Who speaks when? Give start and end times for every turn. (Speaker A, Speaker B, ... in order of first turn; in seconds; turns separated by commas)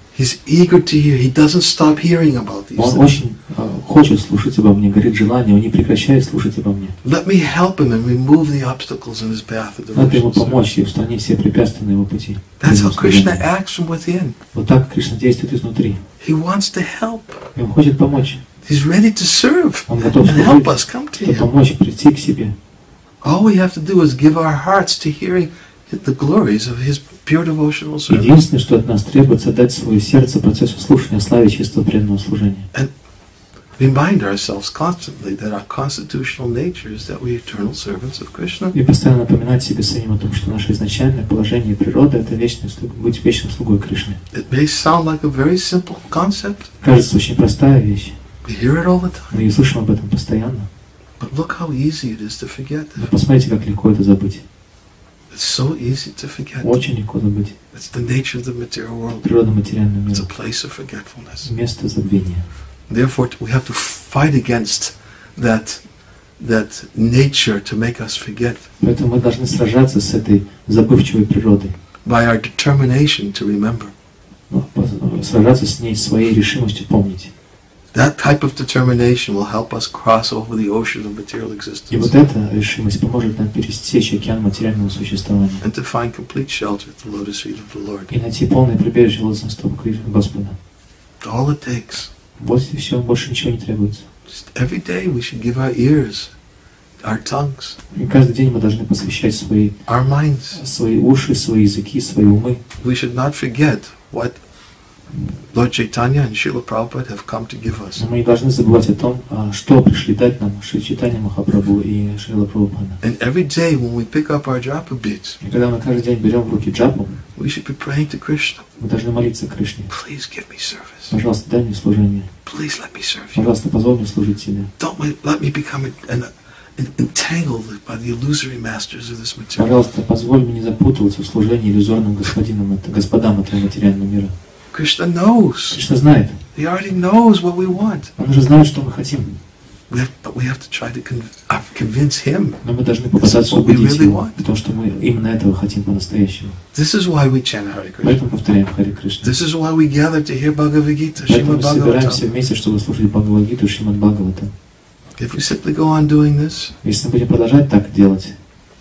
Speaker A: 0.1-3.1, Speaker B: 2.8-7.0, Speaker A: 7.0-10.7, Speaker B: 9.9-13.4, Speaker A: 12.6-14.4, Speaker B: 14.5-16.0, Speaker A: 16.2-17.5, Speaker B: 17.5-18.4, Speaker A: 18.6-21.5, Speaker B: 19.9-22.6, Speaker A: 23.2-28.4, Speaker B: 28.1-32.7, Speaker A: 33.8-38.7, Speaker B: 38.7-44.2, Speaker A: 44.3-46.7, Speaker B: 46.8-48.2, Speaker A: 48.4-49.5, Speaker B: 49.3-50.7, Speaker A: 51.2-53.1, Speaker B: 53.0-54.4, Speaker A: 55.3-56.7, Speaker B: 56.6-57.5, Speaker A: 57.7-59.3, Speaker B: 59.2-60.3, Speaker A: 60.1-61.5, Speaker B: 61.4-62.5, Speaker A: 62.9-65.8, Speaker A: 66.4-68.7, Speaker B: 68.8-71.8, Speaker A: 72.0-73.9, Speaker B: 74.5-77.3, Speaker A: 77.9-82.1, Speaker B: 81.9-85.6, Speaker A: 85.6-88.1, Speaker B: 88.1-90.6, Speaker A: 91.2-92.1, Speaker B: 92.4-94.0, Speaker A: 94.3-96.3, Speaker A: 97.0-97.8, Speaker B: 97.9-99.8, Speaker A: 99.8-100.6, Speaker B: 100.5-102.6, Speaker A: 102.8-104.4, Speaker A: 105.5-108.0, Speaker B: 108.0-113.0, Speaker A: 113.0-115.4, Speaker B: 115.4-117.2, Speaker A: 117.3-118.7, Speaker B: 118.8-119.9, Speaker A: 119.9-121.1, Speaker B: 121.1-122.3, Speaker A: 122.5-123.4, Speaker B: 123.3-124.7, Speaker A: 124.8-129.7, Speaker B: 129.6-134.3, Speaker A: 134.7-135.8, Speaker B: 135.7-136.4, Speaker A: 136.5-138.1, Speaker B: 138.2-139.4, Speaker A: 139.9-142.6, Speaker B: 142.6-146.6, Speaker A: 143.1-144.4, Speaker A: 146.7-148.2, Speaker B: 148.0-149.3, Speaker A: 149.2-152.2, Speaker B: 151.2-154.5, Speaker A: 155.2-156.7, Speaker B: 156.8-158.3